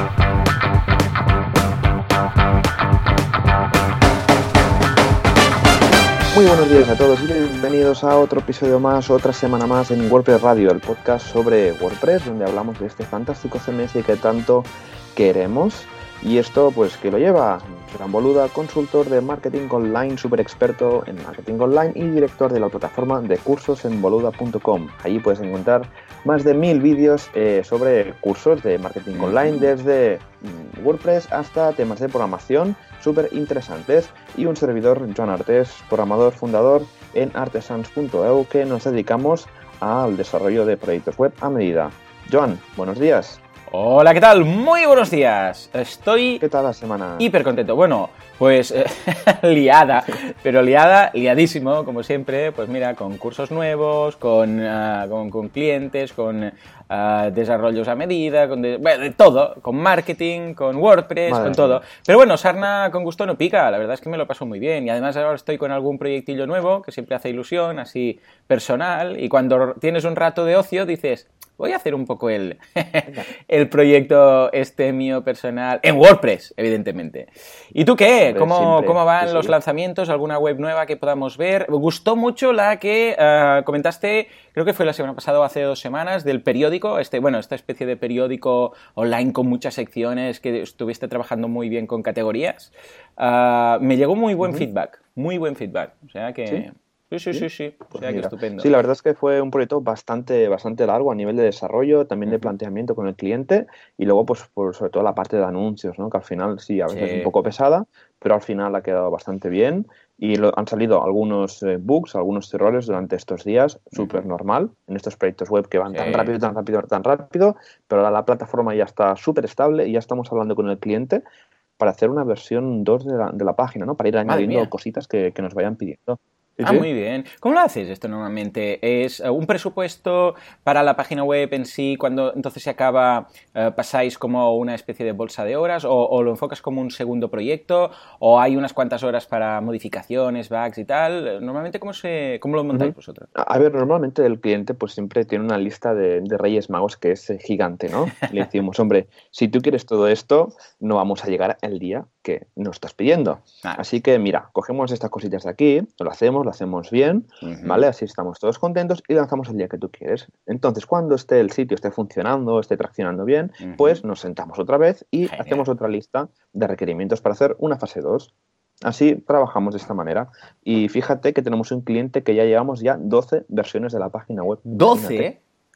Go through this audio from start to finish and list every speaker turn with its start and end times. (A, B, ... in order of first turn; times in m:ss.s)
0:06.3-0:43.4 A
0:29.1-0:29.7 B
0:43.7-0:46.4 B
0:46.4-0:47.3 A
0:47.2-1:38.7 B
1:01.3-1:01.8 A
1:18.3-1:19.5 A
1:37.3-2:01.2 A
1:46.9-1:47.3 B
1:53.9-1:54.2 B
1:55.9-1:56.3 B
2:01.8-2:06.8 A
2:04.3-2:04.7 B
2:06.6-2:23.3 B
2:22.7-2:48.3 A
2:37.4-2:37.8 B
2:43.6-2:44.0 B
2:45.3-2:45.6 B
2:48.8-2:55.3 A
2:54.7-2:55.4 B